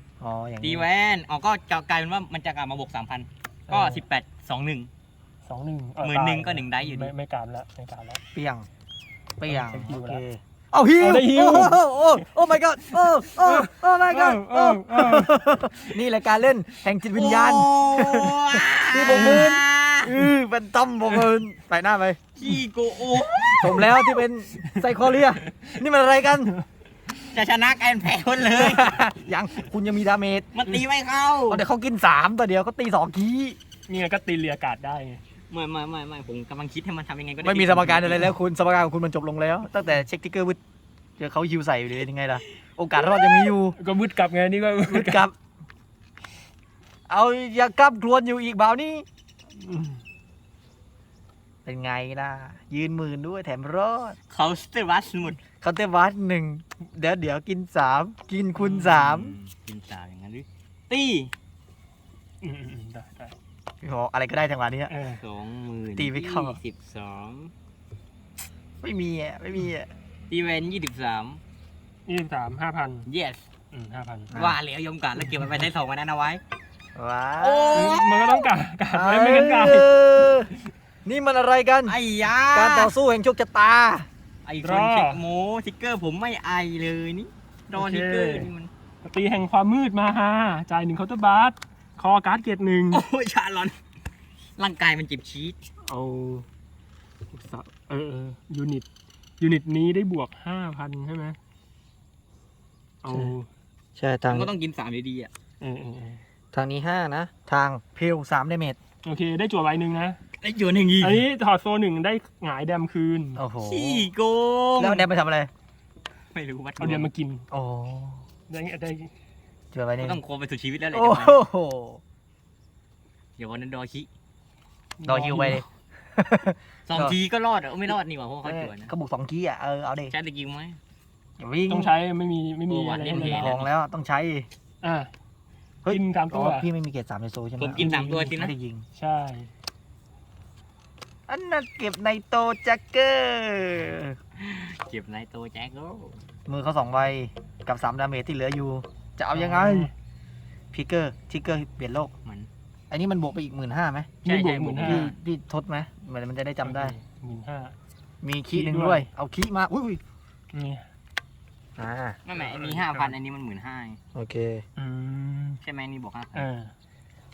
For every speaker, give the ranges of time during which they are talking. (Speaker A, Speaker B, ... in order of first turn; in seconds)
Speaker A: 0.2-0.9, 8.3-8.7, 9.4-22.2, 23.6-26.5, 28.5-30.5, 31.5-33.6, 37.4-40.6, 41.2-43.8, 44.9-45.3, 47.1-49.0, 51.6-54.1, 55.6-59.4, 63.8-64.9, 66.0-66.6, 68.8-69.9, 74.3-74.6, 77.0-77.9, 78.9-80.5, 81.0-82.0, 82.5-84.1, 103.1-103.3, 104.0-104.5, 106.5-108.8, 113.3-114.1, 114.8-115.5, 117.5-118.2, 119.7-120.2, 120.9-122.0, 125.0-125.6, 126.2-127.2, 128.4-130.1, 131.4-131.9, 133.1-134.5, 135.8-138.8, 141.3-144.2, 146.5-149.9, 150.7-152.1, 152.9-154.1, 154.8-156.9, 158.2-160.0, 161.8-162.2, 164.1-164.6
Speaker B: 0.6-4.9, 6.0-7.1, 17.1-20.1, 22.4-23.9, 27.3-29.0, 30.5-31.6, 35.5-38.4, 54.3-55.4, 58.6-61.3, 65.2-67.5, 70.3-71.4, 73.0-73.4, 74.3-76.4, 77.4-78.5, 81.8-82.9, 84.4-88.7, 92.9-93.8, 94.6-95.6, 104.3-105.3, 110.4-111.2, 113.6-115.1, 116.3-117.1, 120.0-121.4, 123.4-124.1, 126.9-128.9, 130.1-130.8, 132.7-133.7, 137.6-138.5, 144.4-146.2, 154.2-155.1, 162.2-164.0, 165.6-166.5
Speaker C: 3.7-4.0, 5.4-8.2, 9.4-10.2, 11.0-16.0, 19.1-19.4, 23.1-25.7, 33.9-35.2, 43.0-45.2, 49.6-50.0, 62.4-63.3, 64.9-65.2, 72.1-73.1, 73.7-74.3, 75.2-75.5, 77.7-80.5, 84.6-85.2, 87.7-88.5, 89.0-93.0, 95.9-96.5, 97.3-98.8, 99.4-101.4, 103.0-103.5, 105.6-106.2, 109.0-110.2, 111.0-113.4, 116.8-117.5, 118.5-119.1, 125.0-125.6, 131.7-133.6, 134.8-135.1, 135.9-136.7, 137.8-138.3, 138.9-139.5, 149.3-149.9, 154.2-155.1, 156.6-157.7, 158.5-159.1, 160.5-160.9, 162.4-163.2, 164.8-165.6, 166.3-166.7